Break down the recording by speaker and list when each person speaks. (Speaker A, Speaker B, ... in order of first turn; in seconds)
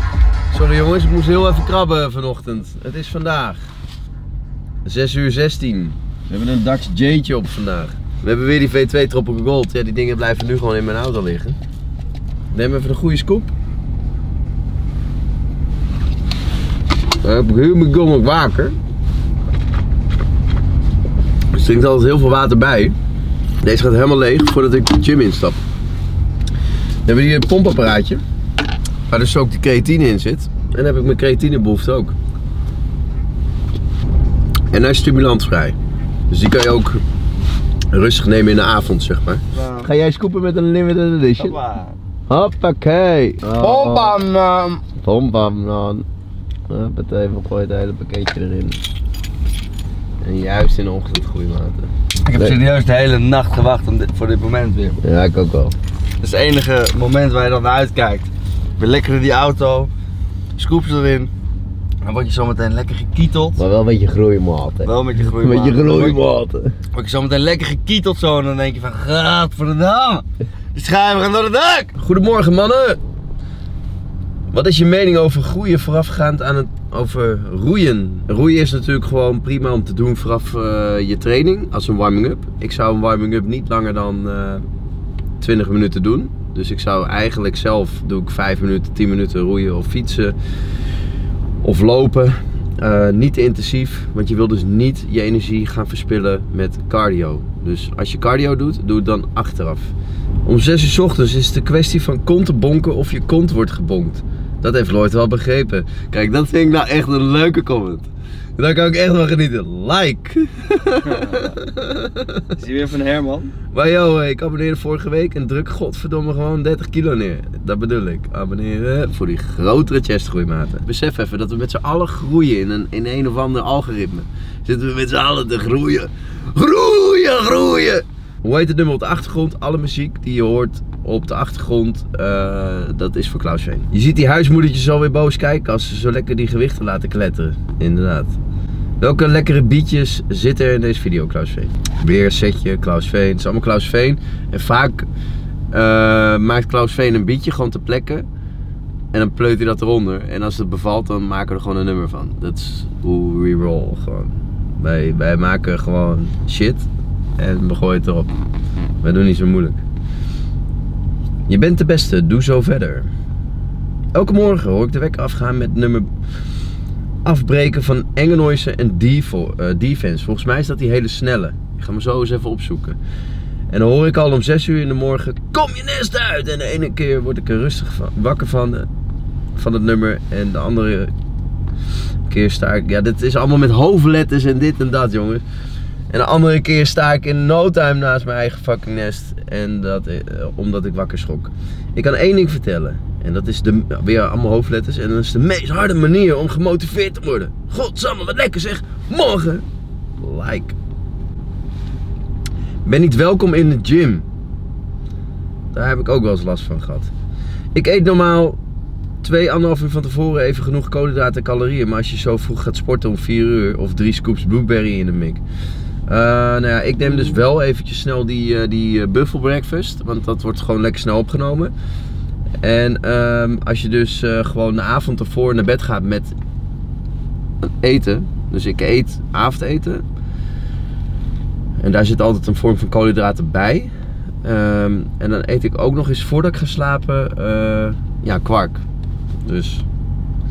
Speaker A: 0.5-3.6, 4.8-11.6, 12.5-13.5, 17.2-18.7, 21.5-22.9, 23.6-25.6, 27.1-28.2, 29.1-32.1, 34.7-35.8, 36.3-37.0, 37.9-41.6, 42.3-44.2, 45.0-46.0, 46.7-48.8, 50.2-52.5, 55.0-55.7, 63.6-66.7, 72.0-73.0, 74.5-84.6, 85.4-90.3, 91.6-99.9, 100.4-112.5, 113.7-138.4, 139.0-145.1, 145.7-148.2, 149.1-156.9, 157.4-158.3, 159.0-159.8, 161.5-163.1, 164.1-166.1, 167.2-173.0, 173.7-178.9, 179.5-181.1, 182.3-185.4, 186.1-199.6, 200.2-200.8, 202.8-204.2, 205.7-207.1, 207.7-208.6, 209.2-215.4, 216.1-221.7, 222.6-226.3, 227.6-230.0, 231.8-233.9, 234.4-238.8, 239.4-239.8
Speaker B: 39.5-39.9, 41.4-42.0, 43.6-44.8, 52.2-55.0, 56.2-59.9, 60.6-61.3, 62.0-63.6, 64.8-66.2, 66.9-71.9, 111.0-111.5, 112.5-113.5